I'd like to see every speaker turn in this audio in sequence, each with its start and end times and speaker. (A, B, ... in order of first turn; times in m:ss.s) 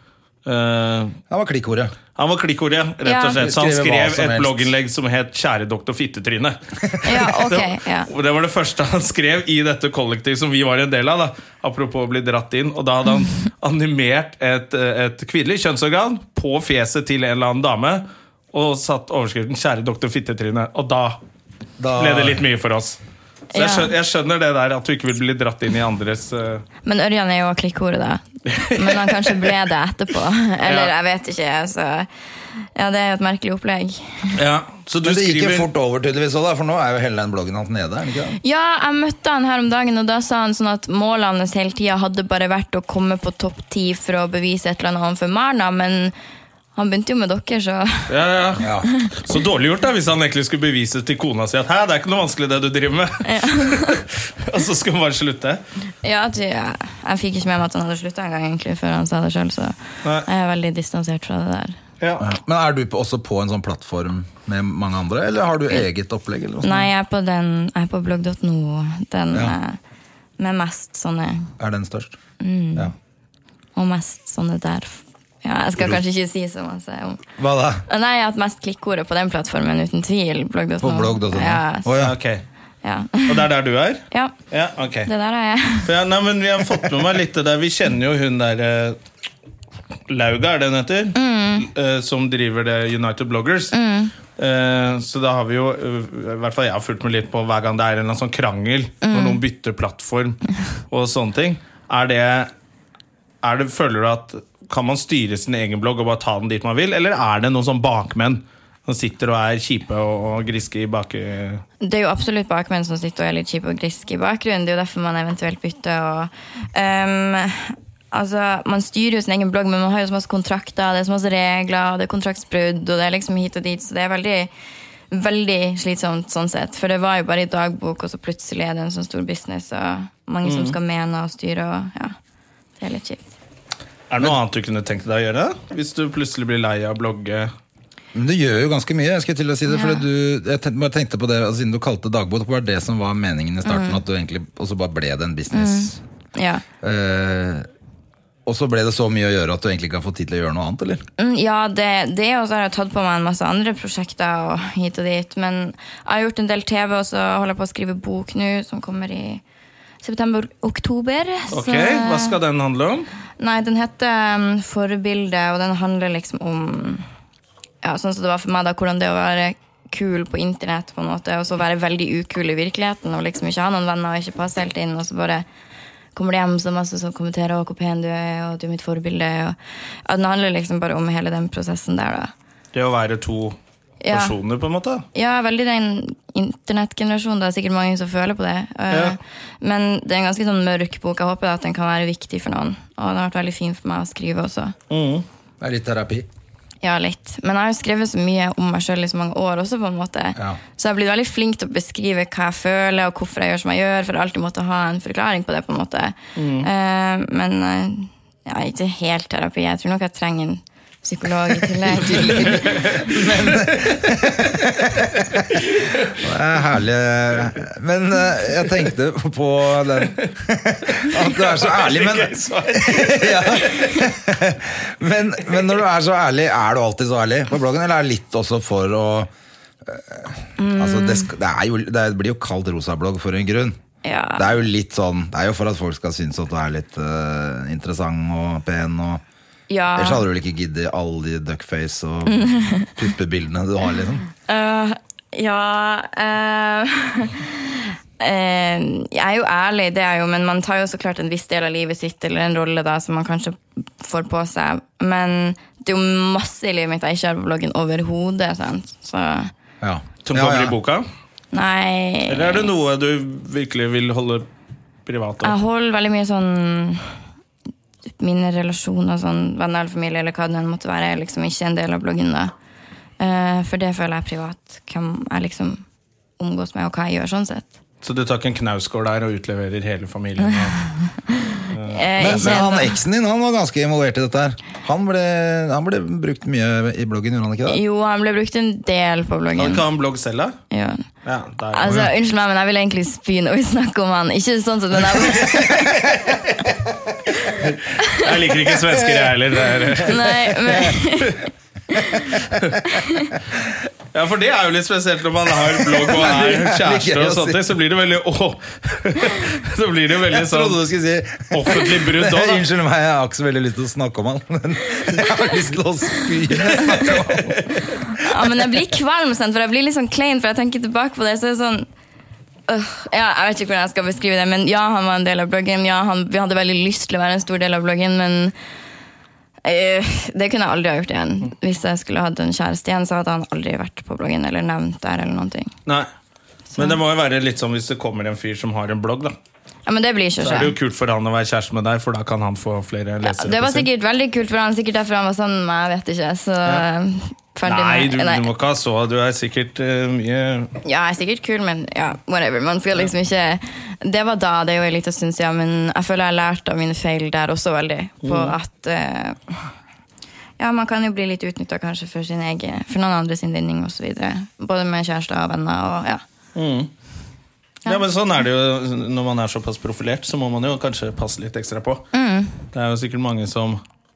0:00.4-0:01.2 A
0:01.3-0:01.9 B
0:02.2-0:21.2 A
0:03.0-0:03.4 C
0:03.3-0:04.7 B
0:07.0-0:08.1 C
0:21.8-0:22.4 B
0:22.0-0:23.0 A
0:23.5-0:26.6 A
0:23.5-0:23.9 C
0:26.8-0:32.1 C
0:28.5-0:29.5 A
0:30.6-0:30.9 A
0:32.7-0:34.3 C
0:34.3-0:35.7 A
0:35.0-0:38.4 B
0:38.4-0:46.1 C
0:46.7-0:48.1 C
0:48.1-0:48.6 A
0:48.6-0:48.9 B
0:49.2-0:55.6 A
0:53.2-0:54.0 C
0:56.0-1:01.8 C
1:02.0-1:02.3 A
1:02.2-1:06.8 B
1:06.6-1:09.8 C
1:10.4-1:11.5 C
1:11.6-1:12.2 B
1:12.4-1:12.9 C
1:13.8-1:17.2 C
1:17.4-1:17.8 B
1:17.9-1:21.9 C
1:20.8-1:22.2 B
1:22.0-1:22.4 A
1:22.8-1:23.5 C
1:23.2-1:25.1 A
1:25.0-1:25.9 C
1:25.8-1:29.0 A
1:30.1-1:33.7 A
1:31.1-1:31.7 C
1:33.7-1:34.1 C
1:34.4-1:42.5 A
1:39.0-1:39.4 C
1:43.4-1:51.6 A
1:51.8-2:04.5 C
2:05.1-2:12.1 C
2:10.4-2:10.8 A
2:12.8-2:13.2 C
2:14.1-2:17.5 A
2:18.1-2:26.0 B
2:19.7-2:20.0 C
2:23.6-2:24.0 C
2:25.5-2:26.6 C
2:26.8-2:27.7 B
2:28.4-2:31.0 B
2:31.2-2:39.4 C
2:40.0-2:42.4 C
2:41.5-2:43.1 A
2:43.4-2:47.0 C
2:47.8-2:55.4 C
2:56.1-3:02.3 C
3:02.7-3:03.6 A
3:04.0-3:04.3 C
3:04.1-3:05.0 A
3:05.1-3:14.7 C
3:08.9-3:09.2 A
3:14.9-3:15.2 A
3:15.6-3:16.3 B
3:16.8-3:32.8 C
3:26.4-3:26.7 A
3:32.1-3:35.6 B
3:32.3-3:34.0 A
3:35.0-3:36.2 A
3:36.2-3:49.3 B
3:41.0-3:44.0 A
3:49.8-3:53.8 B
3:50.6-3:51.3 C
3:54.0-3:54.6 C
3:54.4-3:59.2 B
3:59.7-4:00.2 C
3:59.9-4:04.2 B
4:02.3-4:02.9 C
4:04.5-4:19.5 C
4:19.8-4:20.7 B
4:20.2-4:21.0 A
4:21.5-4:22.7 C
4:22.3-4:24.4 A
4:25.0-4:25.6 A
4:25.4-4:27.2 C
4:28.2-4:32.5 C
4:33.2-4:35.8 C
4:36.4-4:37.7 C
4:38.0-4:40.8 A
4:41.3-4:42.9 C
4:41.7-4:42.6 A
4:42.2-4:47.8 B
4:47.6-4:49.8 C
4:49.6-4:50.6 A
4:50.7-4:51.0 C
4:51.2-4:52.1 A
4:51.7-4:55.9 C
4:55.1-4:56.6 A
4:57.6-5:00.3 A
4:58.9-5:00.9 B
5:00.0-5:02.4 C
5:02.9-5:03.3 C
5:04.1-5:10.8 A
5:05.6-5:07.6 B
5:10.3-5:17.7 B
5:11.5-5:12.6 A
5:16.6-5:17.9 A
5:18.2-5:21.9 C
5:22.7-5:28.5 C
5:29.6-5:35.7 C
5:36.8-5:39.3 A
5:39.9-5:40.7 C
5:40.4-5:43.9 A
5:43.2-5:48.5 C
5:47.6-5:50.7 A
5:50.8-5:59.7 C
5:58.2-5:58.5 A
6:00.6-6:06.2 C
6:06.5-6:06.9 A
6:07.8-6:12.0 A
6:12.1-6:12.5 C
6:12.7-6:13.8 A